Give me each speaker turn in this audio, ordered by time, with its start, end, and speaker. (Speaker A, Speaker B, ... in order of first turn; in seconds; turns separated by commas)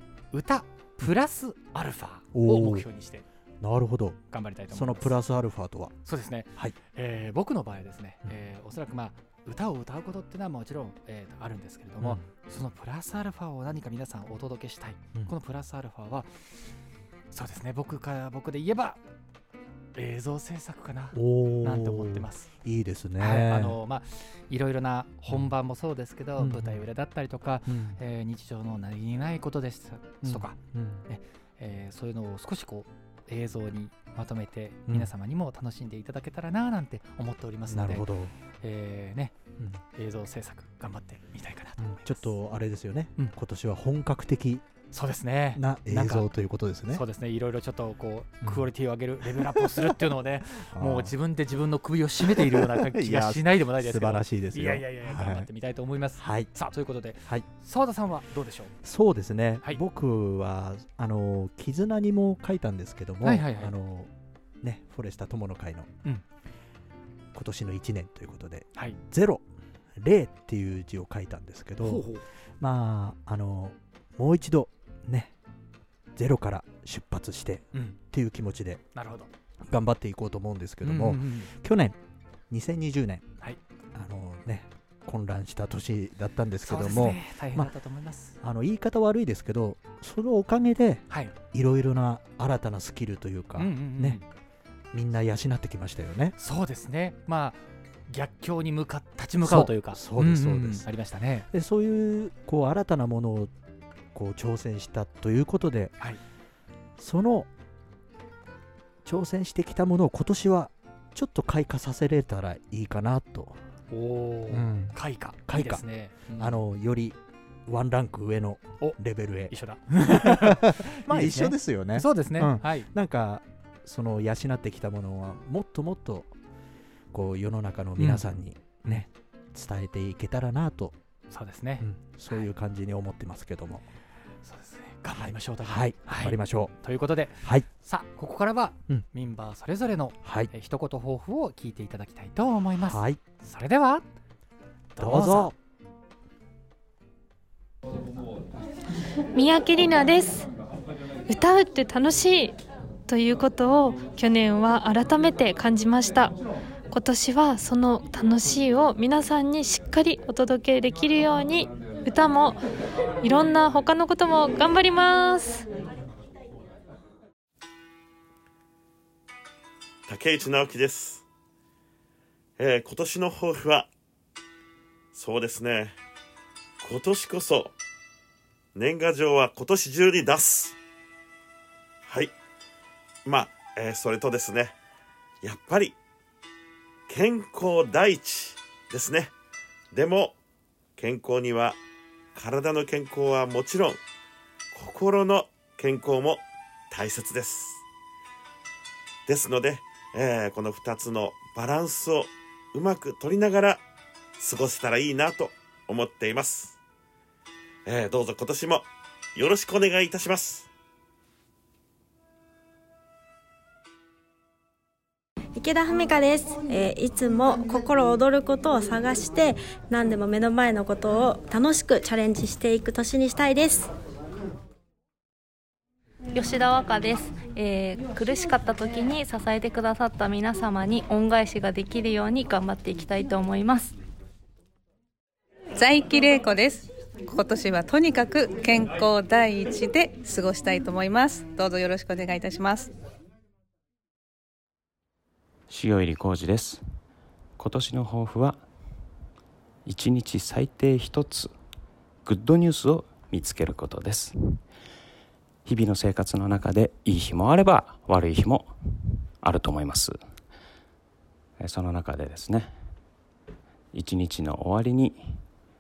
Speaker A: 0.3-3.3, Speaker B: 2.3-2.9, Speaker B: 3.6-4.2, Speaker A: 4.3-5.2, Speaker B: 4.7-6.0, Speaker A: 6.0-16.7, Speaker B: 12.0-12.2, Speaker A: 17.3-19.0, Speaker A: 19.9-22.5, Speaker B: 21.1-23.8, Speaker A: 23.2-38.1, Speaker B: 26.4-26.8, Speaker B: 27.7-28.0, Speaker B: 30.2-31.1, Speaker B: 37.7-38.4, Speaker A: 38.6-39.4, Speaker A: 39.9-42.3, Speaker B: 41.8-44.7, Speaker A: 44.9-46.3, Speaker B: 45.5-47.0, Speaker A: 46.9-58.8, Speaker B: 48.4-48.7, Speaker B: 49.4-50.0, Speaker B: 50.6-51.1, Speaker B: 52.2-55.5, Speaker B: 56.2-56.5, Speaker B: 58.8-64.1, Speaker A: 63.2-63.7, Speaker B: 64.6-65.9, Speaker B: 67.3-69.5, Speaker B: 70.0-72.1, Speaker A: 71.8-72.2, Speaker B: 72.6-75.3, Speaker B: 76.2-78.8, Speaker A: 77.7-78.0, Speaker A: 79.0-79.3, Speaker B: 79.7-82.0, Speaker A: 80.8-81.5, Speaker B: 82.5-83.3, Speaker B: 83.9-87.7, Speaker A: 86.6-88.4, Speaker B: 88.4-94.2, Speaker A: 91.1-91.3, Speaker A: 93.6-94.3, Speaker B: 94.9-96.4, Speaker A: 96.4-101.5, Speaker B: 99.4-100.9, Speaker B: 101.5-103.5, Speaker B: 104.1-105.9, Speaker B: 107.0-107.5, Speaker B: 109.0-113.6, Speaker A: 113.9-116.6, Speaker B: 114.5-126.3, Speaker A: 119.5-122.9, Speaker B: 127.1-131.0, Speaker A: 128.0-128.2, Speaker A: 131.3-132.5, Speaker B: 131.8-133.9, Speaker A: 134.4-144.1, Speaker B: 135.1-136.7, Speaker B: 140.2-140.5, Speaker B: 142.8-143.2, Speaker A: 144.9-145.5, Speaker B: 145.0-145.5, Speaker C: 149.3-150.5, Speaker C: 151.3-156.4, Speaker C: 156.9-162.6, Speaker C: 163.2-165.7, Speaker D: 170.1-171.2, Speaker D: 172.6-173.9, Speaker D: 175.1-175.9, Speaker D: 176.8-177.8, Speaker D: 178.8-180.8, Speaker D: 182.1-182.3, Speaker D: 183.2-184.8, Speaker D: 185.4-186.0, Speaker D: 187.1-189.3, Speaker D: 189.9-190.4, Speaker D: 191.0-191.8, Speaker D: 192.3-194.0, Speaker D: 194.7-197.8, Speaker D: 199.3-203.8, Speaker D: 204.4-206.8, Speaker D: 207.9-210.7, Speaker E: 215.6-223.9, Speaker F: 226.3-233.9, Speaker G: 235.8-242.9, Speaker H: 245.7-246.8, Speaker H: 247.6-248.6, Speaker H: 249.9-251.5, Speaker H: 252.2-254.6, Speaker H: 255.7-258.7, Speaker H: 259.4-260.2, Speaker H: 261.6-262.7, Speaker H: 263.9-265.4